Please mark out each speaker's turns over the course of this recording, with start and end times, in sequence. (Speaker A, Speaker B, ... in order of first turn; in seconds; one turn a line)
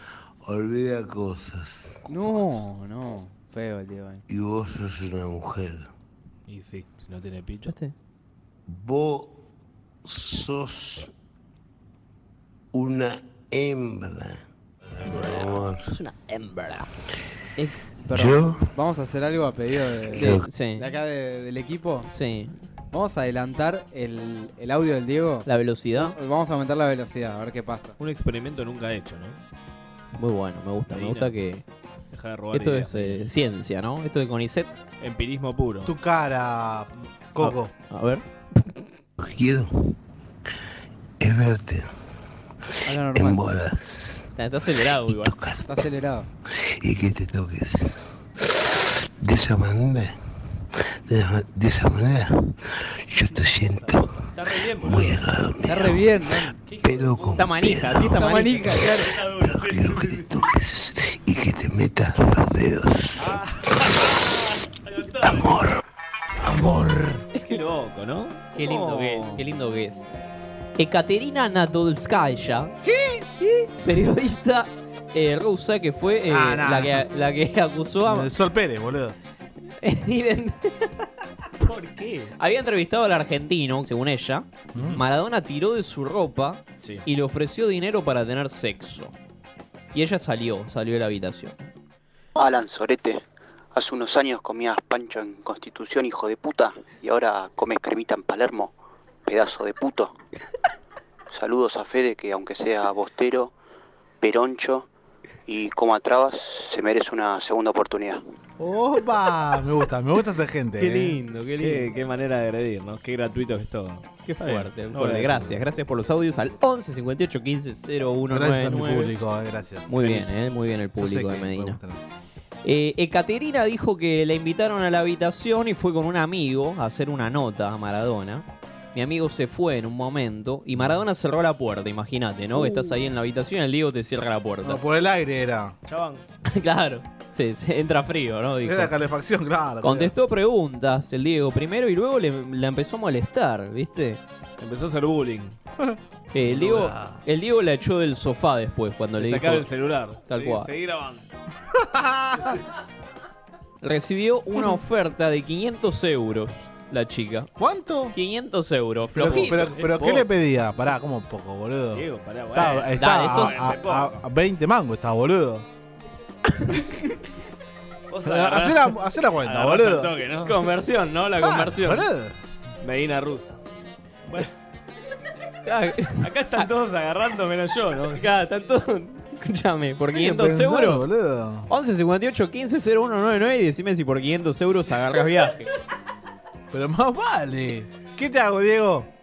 Speaker A: 0.4-2.1
Speaker B: 2.1-4.2
Speaker A: 4.3-5.9
Speaker C: 6.5-7.7
Speaker D: 7.7-7.9
Speaker A: 8.7-9.4
Speaker A: 10.0-11.1
Speaker A: 12.7-14.4
Speaker A: 15.0-15.9
Speaker D: 15.8-16.9
Speaker B: 18.1-22.1
Speaker A: 18.1-18.7
Speaker A: 20.1-20.4
Speaker D: 20.1-20.9
Speaker D: 22.1-22.6
Speaker B: 22.9-27.9
Speaker D: 25.4-26.1
Speaker C: 28.0-29.4
Speaker D: 30.2-31.6
Speaker C: 30.9-31.3
Speaker C: 32.1-33.2
Speaker D: 32.5-34.8
Speaker C: 35.0-35.9
Speaker E: 35.8-37.7
Speaker D: 37.4-38.2
Speaker A: 39.2-40.0
Speaker A: 41.2-41.9
Speaker B: 42.8-43.4
Speaker A: 42.8-44.3
Speaker D: 44.4-45.3
Speaker A: 44.9-45.9
Speaker B: 45.6-46.3
Speaker A: 46.6-48.1
Speaker A: 48.7-50.2
Speaker A: 50.7-54.1
Speaker C: 53.6-55.2
Speaker A: 54.8-56.1
Speaker B: 55.7-56.6
Speaker C: 56.6-57.5
Speaker A: 56.8-58.2
Speaker D: 57.4-58.8
Speaker B: 58.1-59.1
Speaker C: 58.6-60.4
Speaker A: 59.4-63.4
Speaker C: 63.2-65.6
Speaker A: 65.2-65.8
Speaker A: 66.4-67.2
Speaker C: 67.3-69.4
Speaker D: 68.5-70.0
Speaker D: 70.8-72.7
Speaker E: 72.8-73.7
Speaker D: 73.8-78.3
Speaker E: 76.3-77.0
Speaker E: 78.0-79.2
Speaker D: 79.8-80.9
Speaker C: 81.6-82.3
Speaker D: 82.4-89.1
Speaker E: 84.7-85.0
Speaker D: 89.9-91.7
Speaker F: 92.4-98.7
Speaker F: 99.2-100.2
Speaker F: 101.3-103.5
Speaker F: 104.2-104.9
Speaker F: 105.5-108.2
Speaker E: 108.6-111.2
Speaker D: 110.8-111.9
Speaker C: 111.6-115.6
Speaker D: 114.2-119.1
Speaker E: 118.3-119.9
Speaker D: 119.9-121.8
Speaker C: 120.0-120.3
Speaker E: 121.0-122.0
Speaker D: 122.6-134.8
Speaker E: 134.6-135.8
Speaker C: 135.8-136.2
Speaker D: 136.4-138.9
Speaker E: 138.6-140.1
Speaker D: 139.8-144.2
Speaker C: 144.6-145.6
Speaker E: 145.8-147.2
Speaker D: 146.3-149.7
Speaker C: 149.2-151.2
Speaker D: 150.3-150.7
Speaker E: 151.8-152.6
Speaker D: 153.8-157.5
Speaker E: 157.6-158.1
Speaker D: 158.1-159.7
Speaker E: 159.1-165.7
Speaker C: 159.2-160.3
Speaker C: 161.9-164.2
Speaker D: 163.0-163.7
Speaker C: 168.1-170.7
Speaker E: 168.2-170.1
Speaker D: 170.4-172.1
Speaker E: 171.4-172.4
Speaker C: 172.8-173.5
Speaker D: 175.6-176.6
Speaker C: 176.2-178.2
Speaker D: 178.2-181.1
Speaker E: 180.1-181.7
Speaker D: 181.7-185.7
Speaker E: 186.7-189.1